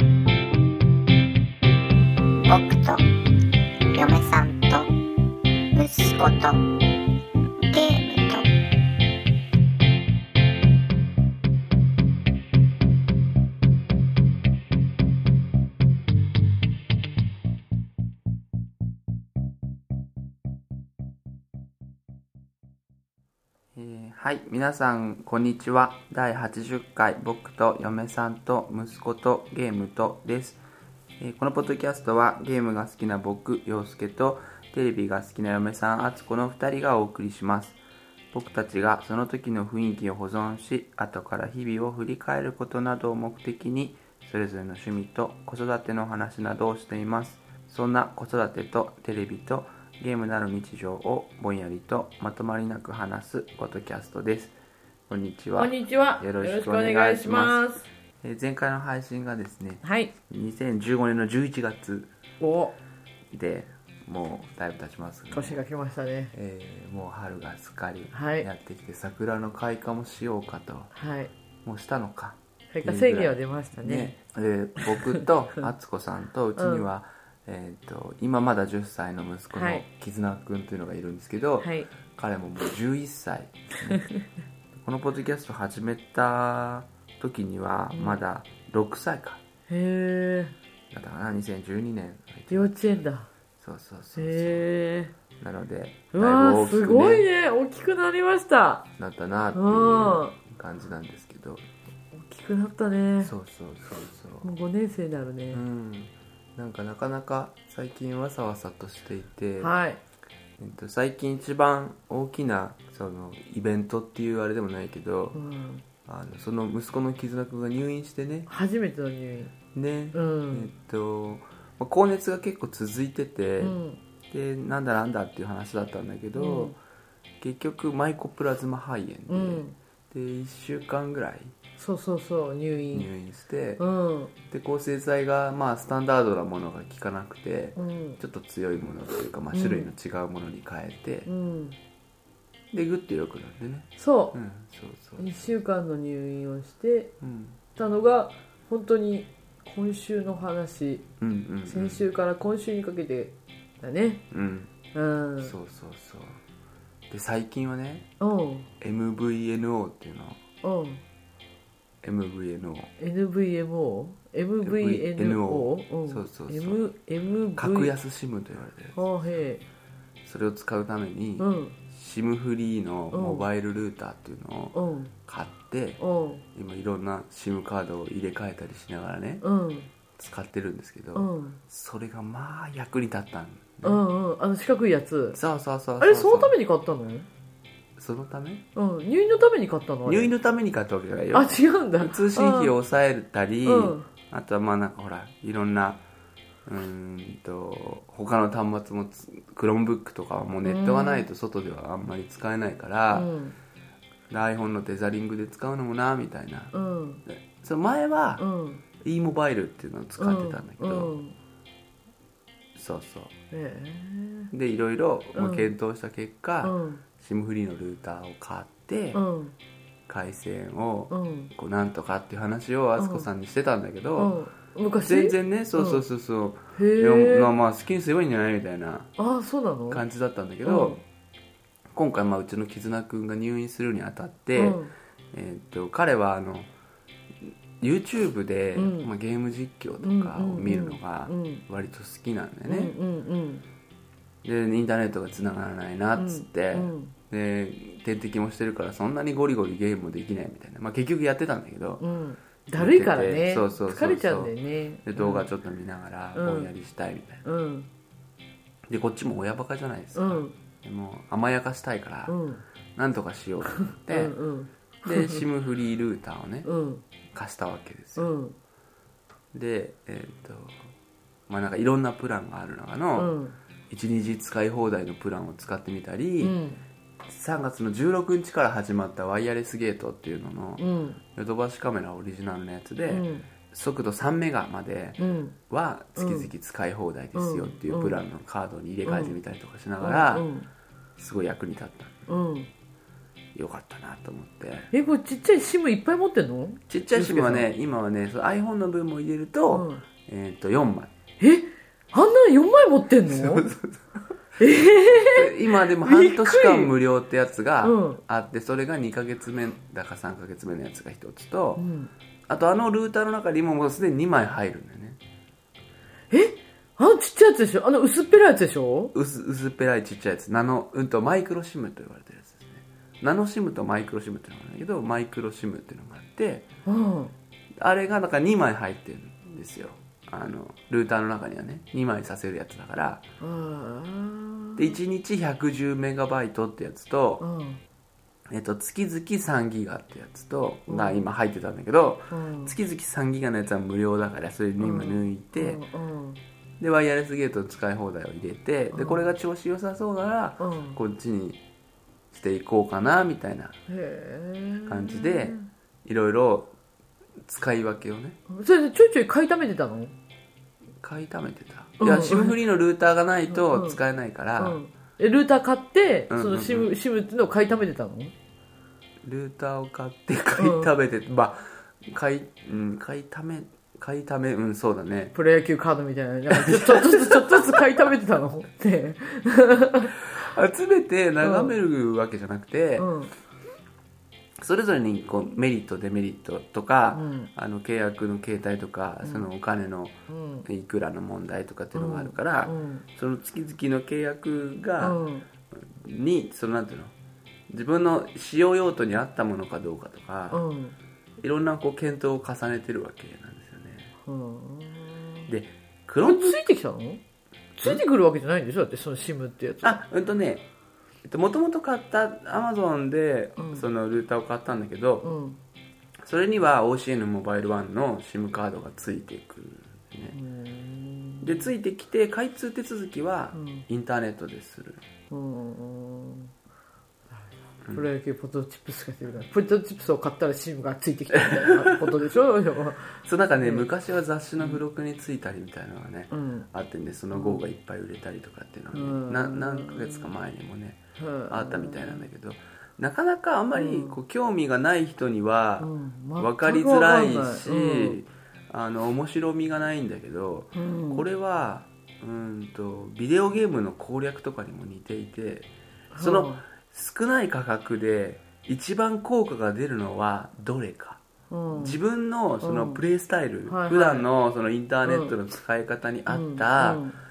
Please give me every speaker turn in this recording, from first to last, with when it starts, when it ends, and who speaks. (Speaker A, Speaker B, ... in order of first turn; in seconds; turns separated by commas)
Speaker A: 2.5-3.0, Speaker A: 3.9-4.9, Speaker A: 5.7-6.7, Speaker A: 7.7-8.5, Speaker B: 23.8-30.6, Speaker B: 31.2-37.8, Speaker B: 38.3-54.5, Speaker B: 55.1-57.6, Speaker C: 55.6-57.9, Speaker B: 58.2-62.1, Speaker C: 59.8-60.1, Speaker C: 62.4-62.8, Speaker B: 63.3-65.6, Speaker C: 65.3-66.3, Speaker B: 66.3-70.9, Speaker C: 68.1-68.5, Speaker C: 71.0-71.3, Speaker B: 71.7-84.0, Speaker C: 72.7-74.2, Speaker C: 76.6-76.9, Speaker C: 79.5-79.8, Speaker C: 81.6-81.9, Speaker C: 83.9-84.2, Speaker B: 84.8-89.4, Speaker C: 87.9-88.2, Speaker C: 89.7-90.5, Speaker B: 90.9-93.0, Speaker C: 92.5-93.3, Speaker B: 93.6-94.7, Speaker C: 94.2-95.1, Speaker B: 95.4-97.3, Speaker C: 96.1-98.9, Speaker B: 99.0-101.7, Speaker C: 99.5-100.4, Speaker C: 102.1-103.3, Speaker B: 103.2-104.5, Speaker C: 104.4-105.6, Speaker B: 105.5-109.8, Speaker C: 109.6-110.0, Speaker B: 110.6-115.4, Speaker C: 115.3-115.8, Speaker B: 116.0-118.5, Speaker C: 118.5-119.5, Speaker B: 119.7-123.8, Speaker C: 120.1-120.7, Speaker C: 123.6-124.0, Speaker B: 124.3-126.8, Speaker C: 126.4-126.8, Speaker B: 127.4-131.6, Speaker C: 129.3-129.8, Speaker C: 131.8-133.1, Speaker B: 132.9-133.8, Speaker C: 133.8-134.3, Speaker B: 134.5-141.3, Speaker C: 137.8-138.2, Speaker C: 139.5-139.9, Speaker C: 141.3-141.8, Speaker B: 142.7-145.4, Speaker C: 144.0-144.4, Speaker C: 145.2-147.1, Speaker B: 147.2-147.6, Speaker C: 147.8-151.1, Speaker B: 151.2-152.1, Speaker C: 151.7-154.2, Speaker B: 154.3-154.7, Speaker C: 154.9-155.5, Speaker B: 155.4-156.4, Speaker B: 157.1-158.1, Speaker C: 158.2-158.7, Speaker B: 158.8-160.4, Speaker C: 160.6-161.0, Speaker B: 162.0-162.9, Speaker C: 163.0-167.9, Speaker B: 164.6-166.8, Speaker B: 167.6-169.0, Speaker C: 168.9-169.6, Speaker B: 170.2-176.0, Speaker C: 171.4-171.8, Speaker C: 173.1-173.5, Speaker C: 174.7-175.1, Speaker C: 176.0-176.4, Speaker B: 176.5-179.4, Speaker C: 179.4-179.9, Speaker B: 180.2-184.0, Speaker C: 181.2-181.6, Speaker C: 183.8-185.4, Speaker B: 185.3-186.6, Speaker C: 186.0-187.3, Speaker B: 188.0-188.7, Speaker C: 188.8-190.3, Speaker B: 190.1-196.0, Speaker C: 191.3-192.8, Speaker C: 193.7-194.1, Speaker B: 196.7-203.3, Speaker C: 200.7-201.3, Speaker C: 203.1-203.6, Speaker B: 204.3-206.7, Speaker C: 206.7-207.2, Speaker B: 207.3-208.5, Speaker C: 208.4-208.8, Speaker B: 209.0-211.2, Speaker C: 210.2-211.4, Speaker B: 212.8-213.3, Speaker C: 213.5-214.5, Speaker B: 214.5-219.2, Speaker C: 215.3-215.7, Speaker C: 216.6-217.0, Speaker C: 219.1-219.6, Speaker B: 220.1-224.4, Speaker C: 221.1-221.5, Speaker C: 223.0-223.3, Speaker C: 224.2-226.0, Speaker B: 225.0-229.1, Speaker C: 226.7-227.6, Speaker C: 229.2-230.0, Speaker B: 229.9-231.0, Speaker C: 230.6-231.0, Speaker B: 231.9-234.8, Speaker C: 234.6-234.9, Speaker B: 235.3-236.7, Speaker B: 237.4-242.9, Speaker C: 238.8-239.1, Speaker C: 240.0-241.6, Speaker C: 242.7-243.6, Speaker B: 244.4-252.0, Speaker C: 246.2-247.1, Speaker C: 252.0-255.5, Speaker B: 252.8-254.5, Speaker B: 255.1-257.4, Speaker C: 256.4-256.7, Speaker C: 257.4-257.9, Speaker B: 258.9-262.4, Speaker C: 260.1-260.6, Speaker C: 262.3-262.6, Speaker B: 263.0-264.4, Speaker C: 263.8-265.4, Speaker B: 265.0-266.7, Speaker C: 266.6-267.0, Speaker B: 267.3-268.3, Speaker C: 268.2-268.6, Speaker B: 269.5-270.9, Speaker B: 271.5-273.4, Speaker C: 273.2-273.6, Speaker B: 273.9-276.6, Speaker C: 276.4-276.8, Speaker B: 277.3-290.5, Speaker C: 280.8-281.2, Speaker C: 283.1-283.5, Speaker C: 285.2-285.6, Speaker C: 286.2-286.5, Speaker C: 287.4-288.2, Speaker C: 289.1-289.4, Speaker C: 290.0-290.7, Speaker B: 291.2-292.2, Speaker C: 292.3-292.7, Speaker B: 293.6-294.9, Speaker C: 294.9-297.7, Speaker B: 296.9-301.1, Speaker C: 299.7-300.0, Speaker C: 301.4-303.6, Speaker B: 303.3-304.0, Speaker C: 304.6-306.9, Speaker B: 305.2-311.8, Speaker C: 307.8-308.2, Speaker C: 311.8-312.1, Speaker B: 312.5-315.2, Speaker C: 316.3-319.1, Speaker B: 319.1-326.7, Speaker C: 326.9-327.3, Speaker B: 327.8-333.3, Speaker C: 333.4-335.0, Speaker B: 334.8-337.4, Speaker C: 337.4-337.8, Speaker B: 338.5-345.8, Speaker C: 340.9-341.3, Speaker C: 342.3-342.8, Speaker C: 344.8-346.4, Speaker B: 346.8-351.6, Speaker C: 348.9-349.3, Speaker C: 350.6-351.0, Speaker B: 352.3-353.8, Speaker C: 353.9-355.7, Speaker B: 354.9-356.7, Speaker B: 357.4-358.4, Speaker C: 358.5-360.1, Speaker B: 361.0-364.8, Speaker C: 362.0-362.6, Speaker C: 363.5-364.0, Speaker C: 364.6-368.3, Speaker B: 366.3-366.9, Speaker B: 369.2-375.4, Speaker C: 370.6-370.9, Speaker C: 375.4-380.2, Speaker B: 376.5-378.0, Speaker B: 380.3-383.1, Speaker C: 381.4-381.8, Speaker C: 383.0-383.3, Speaker B: 384.6-395.2, Speaker C: 387.1-387.5, Speaker C: 389.2-389.5, Speaker C: 390.3-390.6, Speaker C: 391.9-393.1, Speaker C: 395.0-395.5, Speaker B: 395.9-397.1, Speaker B: 397.7-400.6, Speaker C: 400.5-401.0, Speaker B: 401.4-404.1, Speaker C: 404.3-405.5, Speaker B: 405.5-406.6, Speaker C: 406.2-407.2, Speaker C: 407.8-410.0, Speaker B: 409.8-410.7, Speaker B: 411.3-415.3, Speaker C: 413.6-413.8, Speaker C: 415.2-415.6, Speaker B: 416.2-420.4, Speaker C: 420.3-421.7, Speaker B: 421.4-425.0, Speaker C: 423.5-423.8, Speaker C: 425.3-426.5, Speaker C: 427.9-433.9, Speaker B: 431.5-432.1, Speaker B: 433.2-461.2, Speaker C: 436.3-436.7, Speaker C: 437.3-437.6, Speaker C: 438.9-440.3, Speaker C: 441.2-442.3, Speaker C: 443.8-444.2, Speaker C: 445.8-448.2, Speaker C: 450.8-451.3, Speaker C: 456.1-456.6, Speaker C: 461.5-462.0, Speaker B: 461.7-467.1, Speaker C: 462.6-463.0, Speaker C: 463.7-464.3, Speaker C: 465.1-465.3, Speaker C: 466.3-467.2